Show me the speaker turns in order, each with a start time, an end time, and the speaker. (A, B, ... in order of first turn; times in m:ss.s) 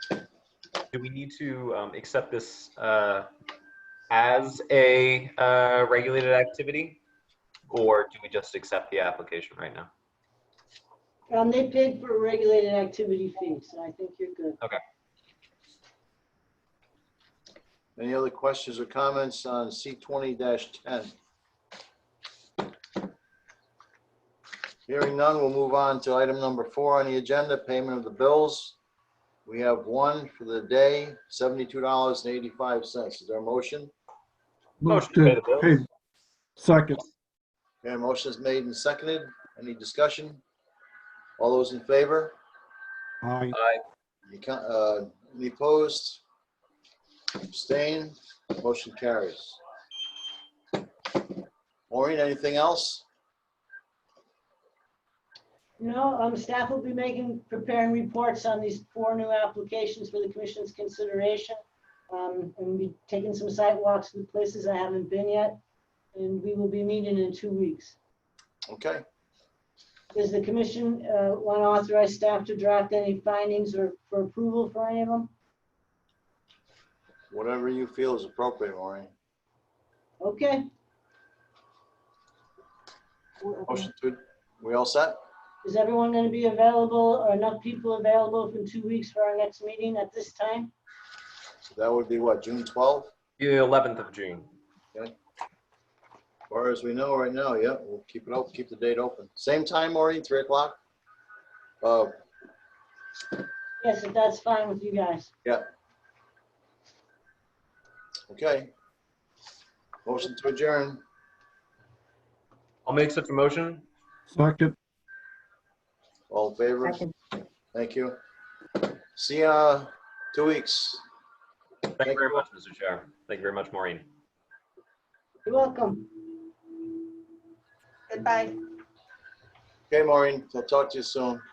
0:00.9-0:03.3 A
0:04.1-0:07.0 A
0:07.7-0:09.9 A
0:11.3-0:14.6 B
0:18.0-0:21.1 C
0:24.9-0:28.8 C
0:29.5-0:33.9 C
0:34.8-0:35.8 D
0:34.9-0:35.8 A
0:36.6-0:37.0 D
0:37.8-0:40.4 C
0:41.4-0:42.3 C
0:43.2-0:43.6 D
0:43.5-0:43.8 A
0:44.3-0:46.2 C
0:47.4-0:49.6 C
0:51.9-0:53.0 C
0:55.8-1:01.6 B
1:02.1-1:05.6 B
1:06.1-1:08.0 B
1:08.7-1:09.0 C
1:10.1-1:15.3 B
1:17.3-1:19.1 C
1:20.2-1:20.6 B
1:23.4-1:23.9 B
1:23.7-1:25.2 C
1:25.6-1:30.7 B
1:31.6-1:33.1 C
1:33.4-1:34.5 A
1:36.5-1:40.8 C
1:41.8-1:42.1 C
1:43.8-1:45.3 B
1:48.3-1:48.7 C
1:50.0-1:51.0 C
1:52.8-1:53.8 A
1:54.3-1:54.8 D
1:56.3-1:57.1 C
1:57.7-1:58.2 C
1:59.1-2:01.0 C
2:02.0-2:04.0 A
2:02.0-2:02.3 C
2:05.4-2:06.3 B
2:09.9-2:11.4 C